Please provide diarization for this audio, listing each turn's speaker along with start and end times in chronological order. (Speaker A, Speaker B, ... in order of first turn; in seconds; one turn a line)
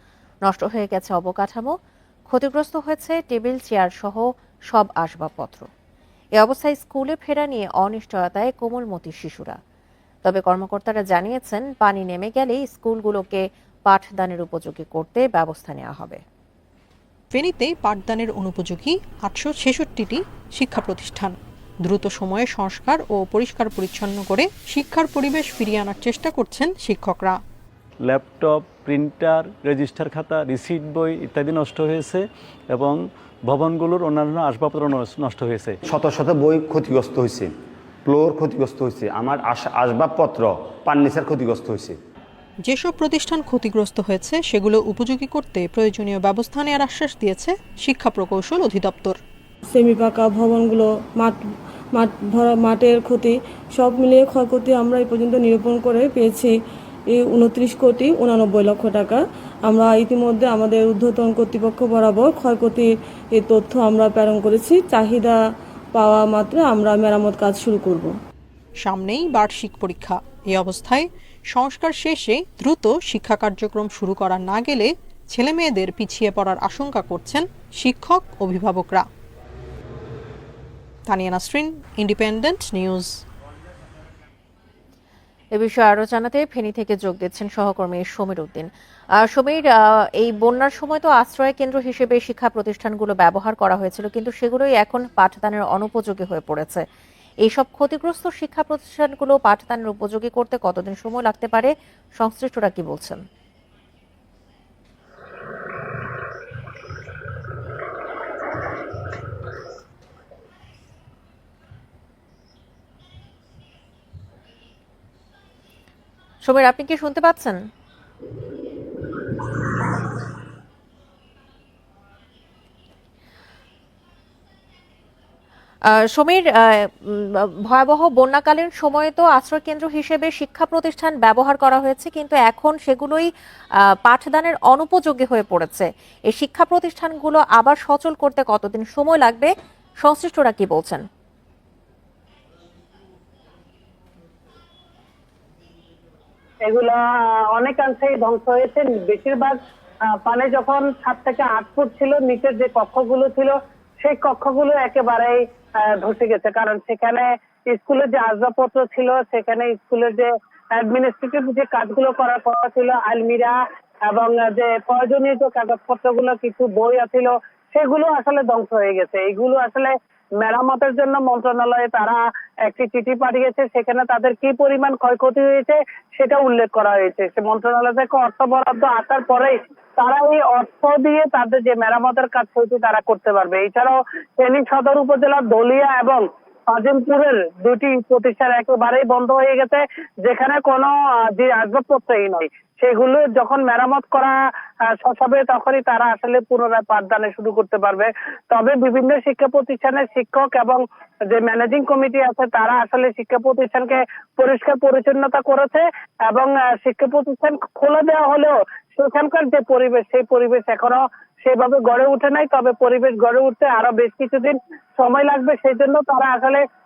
Speaker A: 0.4-1.8
Speaker A: 2.3-5.7
Speaker A: 6.4-9.6
Speaker A: 10.2-16.2
Speaker B: 17.3-27.4
Speaker C: 28.0-35.8
Speaker D: 35.9-37.5
Speaker D: 38.0-42.0
Speaker B: 42.6-49.2
Speaker E: 49.7-51.4
Speaker E: 51.9-56.5
Speaker E: 57.1-65.4
Speaker E: 65.9-68.1
Speaker B: 68.8-79.0
Speaker B: 81.0-83.2
Speaker A: 85.5-96.8
Speaker A: 97.4-103.2
Speaker A: 116.4-117.7
Speaker A: 125.9-133.3
Speaker A: 134.0-141.1
Speaker F: 146.7-149.6
Speaker F: 150.1-194.3
Speaker F: 195.0-200.8
Speaker F: 201.3-216.6